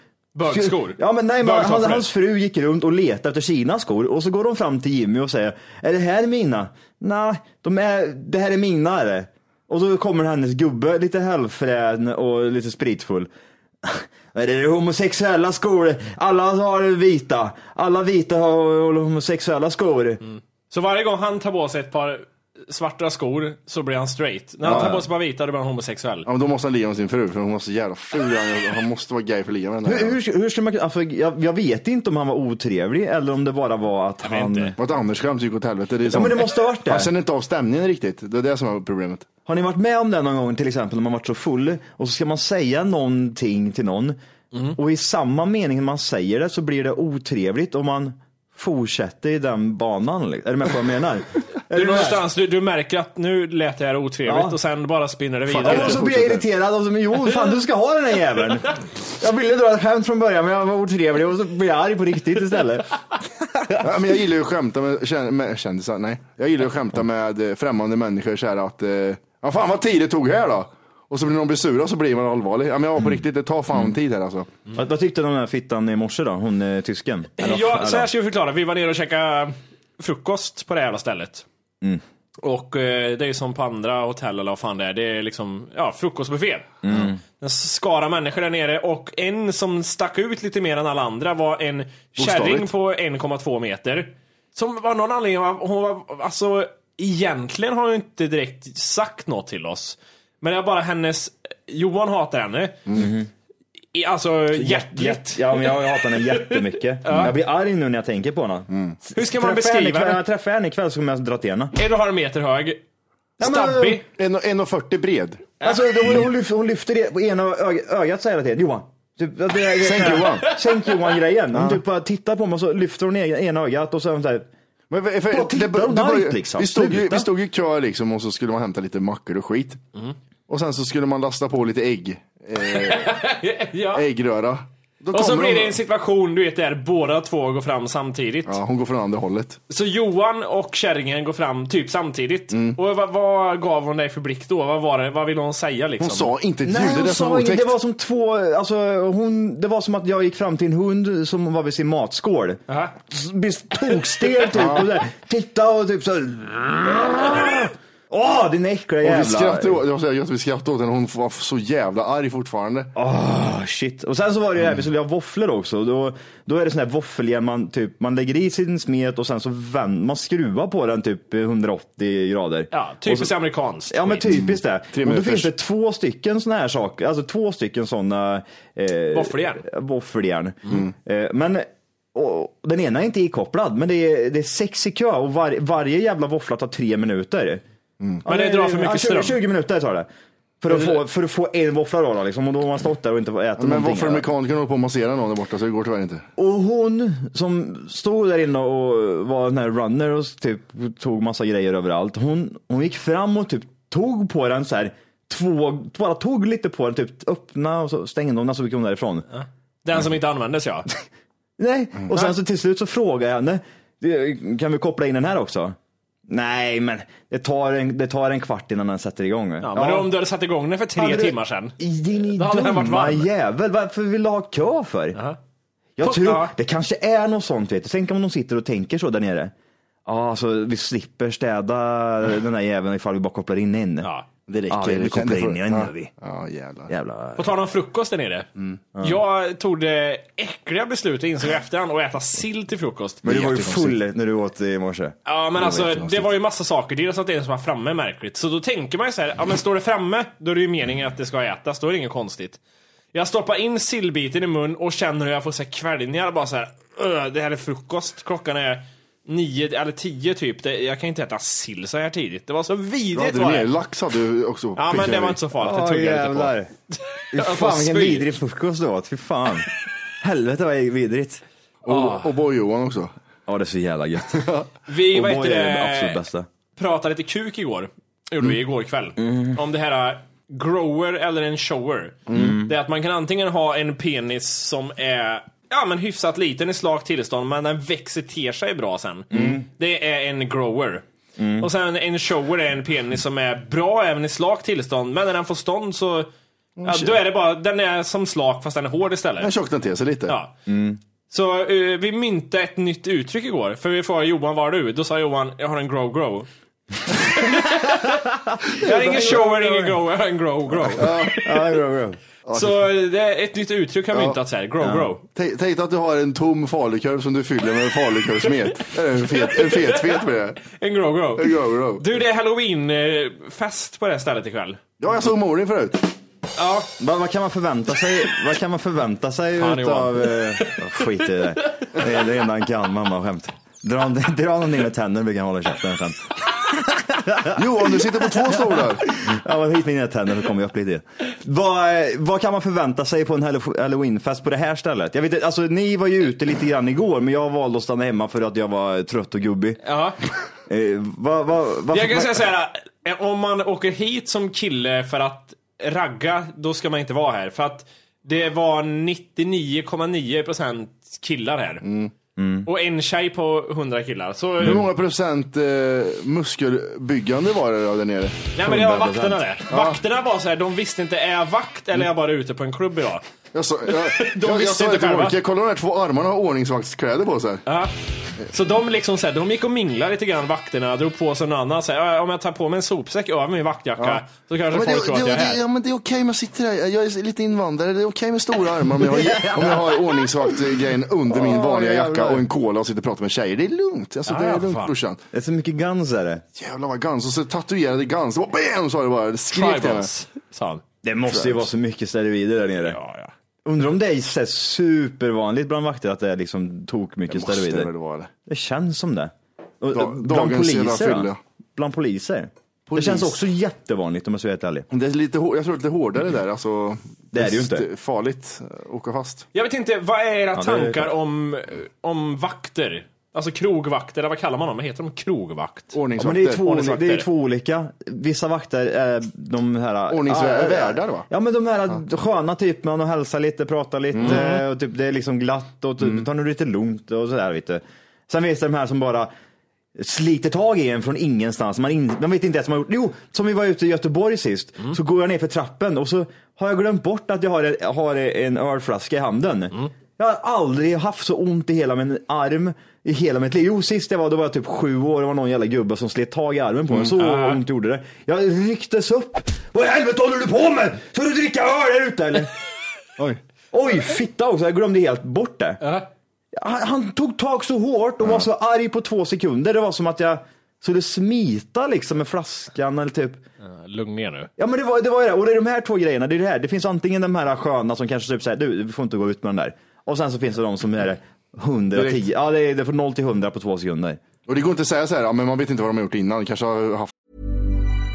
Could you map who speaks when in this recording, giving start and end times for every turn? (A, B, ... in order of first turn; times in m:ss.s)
0:00.3-0:02.1 A
0:00.5-0:13.3 B
0:13.8-0:20.2 B
0:20.2-0:26.3 A
0:24.6-0:25.0 C
0:24.7-0:25.0 B
0:26.2-0:30.2 C
0:29.8-0:34.8 B
0:34.2-0:34.7 A
0:34.8-0:39.3 C
0:36.1-0:37.1 B
0:39.4-0:44.2 B
0:44.5-0:44.8 A
0:44.7-0:52.2 B
0:51.7-0:56.0 A
0:54.2-0:54.6 B
0:55.5-0:56.4 C
0:55.5-1:02.9 B
1:03.6-1:03.9 B
1:03.8-1:14.5 C
1:14.7-1:18.1 B
1:17.4-1:21.4 A
1:22.4-1:26.8 A
1:26.8-1:27.2 B
1:27.4-1:42.8 A
1:32.2-1:32.7 C
1:42.9-1:43.3 B
1:43.9-1:47.3 A
1:44.5-1:51.7 B
1:49.1-1:50.2 A
1:51.8-1:52.8 A
1:53.4-1:54.0 A
1:53.4-1:54.0 B
1:54.2-1:55.5 C
1:55.6-2:04.5 B
1:59.8-2:00.5 C
2:01.5-2:01.8 C
2:04.9-2:09.8 C
2:05.3-2:07.3 B
2:10.5-2:13.2 C
2:12.7-2:14.0 A
2:13.9-2:15.8 C
2:15.1-2:18.6 A
2:18.5-2:19.6 C
2:19.7-2:26.3 A
2:22.5-2:22.8 C
2:26.0-2:27.7 C
2:26.6-2:39.8 B
2:32.7-2:32.9 A
2:34.5-2:34.8 C
2:39.0-2:42.9 C
2:42.9-2:53.3 B
2:52.7-2:54.3 A
2:53.9-3:07.6 B
2:54.2-2:55.5 C
2:59.1-2:59.6 A
3:08.2-3:10.1 B
3:08.2-3:09.4 A
3:10.6-3:14.3 B
3:13.6-3:16.2 C
3:16.4-3:29.2 B
3:29.3-3:30.9 A
3:31.6-3:35.8 B
3:36.3-3:40.1 B
3:39.6-3:41.8 A
3:41.0-3:45.2 B
3:42.3-3:43.3 A
3:46.0-3:49.5 B
3:46.0-3:46.5 A
3:50.0-3:54.1 B
3:54.5-3:56.9 C
3:54.7-3:56.1 B
3:56.9-3:57.5 B
3:57.4-3:58.5 A
3:59.0-3:59.2 B
3:59.0-4:03.4 A
4:03.2-4:06.1 B
4:03.2-4:03.9 C
4:05.2-4:12.6 A
4:13.1-4:23.7 A
4:23.1-4:25.4 C
4:24.8-4:28.3 A
4:25.6-4:26.7 B
4:27.3-4:29.7 B
4:30.2-4:31.4 B
4:31.8-4:33.1 C
4:31.9-4:32.3 A
4:33.5-4:34.5 B
4:34.4-4:34.6 C
4:34.9-4:36.2 A
4:35.1-4:36.5 B
4:36.8-4:51.0 A
4:39.2-4:39.6 B
4:42.3-4:42.6 C
4:42.3-4:42.7 B
4:49.3-4:49.6 B
4:51.4-4:51.7 B
4:51.6-4:56.3 A
4:56.8-4:57.2 C
4:56.8-4:59.5 A
4:59.4-5:00.4 C
5:00.3-5:00.5 A
5:00.7-5:01.0 B
5:01.3-5:06.5 A
5:07.2-5:11.6 A
5:08.8-5:10.0 B
5:10.9-5:11.5 C
5:11.0-5:12.2 B
5:12.5-5:12.8 C
5:12.5-5:15.2 A
5:14.1-5:14.4 C
5:15.3-5:20.7 C
5:19.3-5:24.8 A
5:21.4-5:22.0 C
5:25.0-5:26.1 C
5:26.6-5:26.9 A
5:27.0-5:37.6 B
5:29.6-5:31.1 A
5:31.6-5:31.9 A
5:37.5-5:39.2 C
5:39.2-5:49.8 B
5:49.8-5:50.2 A
5:50.7-5:52.4 B
5:51.9-6:01.8 A
6:01.8-6:02.1 C
6:02.4-6:02.7 B
6:02.6-6:04.8 A
6:04.6-6:08.4 C
6:08.5-6:13.2 A
6:08.6-6:09.4 B
6:09.7-6:10.0 C
6:13.5-6:17.6 C
6:13.9-6:15.4 A
6:17.6-6:17.9 A
6:18.5-6:25.6 A
6:24.7-6:35.2 C
6:29.0-6:30.2 B
6:31.3-6:32.4 B
6:34.2-6:34.9 A
6:35.3-6:36.4 B
6:36.6-6:40.1 C
6:39.5-6:40.8 A
6:41.0-6:43.0 B
6:41.3-6:41.6 C
6:42.8-6:43.3 A
6:43.6-6:47.9 B
6:47.3-6:48.3 C
6:48.4-6:54.8 B
6:49.9-6:51.4 C
6:52.9-6:53.3 C
6:54.9-6:59.5 C
6:57.3-6:57.9 B
6:59.5-7:06.0 A
7:00.5-7:01.1 B
7:05.9-7:06.6 C
7:06.2-7:19.3 B
7:06.6-7:07.2 A
7:10.1-7:11.2 C
7:14.1-7:14.4 C
7:14.2-7:14.6 A
7:20.0-7:42.5 B
7:37.1-7:37.6 A
7:43.7-7:45.8 B
7:45.8-7:46.1 A
7:46.5-7:53.4 B
7:53.6-7:54.5 A
7:54.6-8:04.2 B
8:01.9-8:02.2 C
8:04.5-8:07.1 C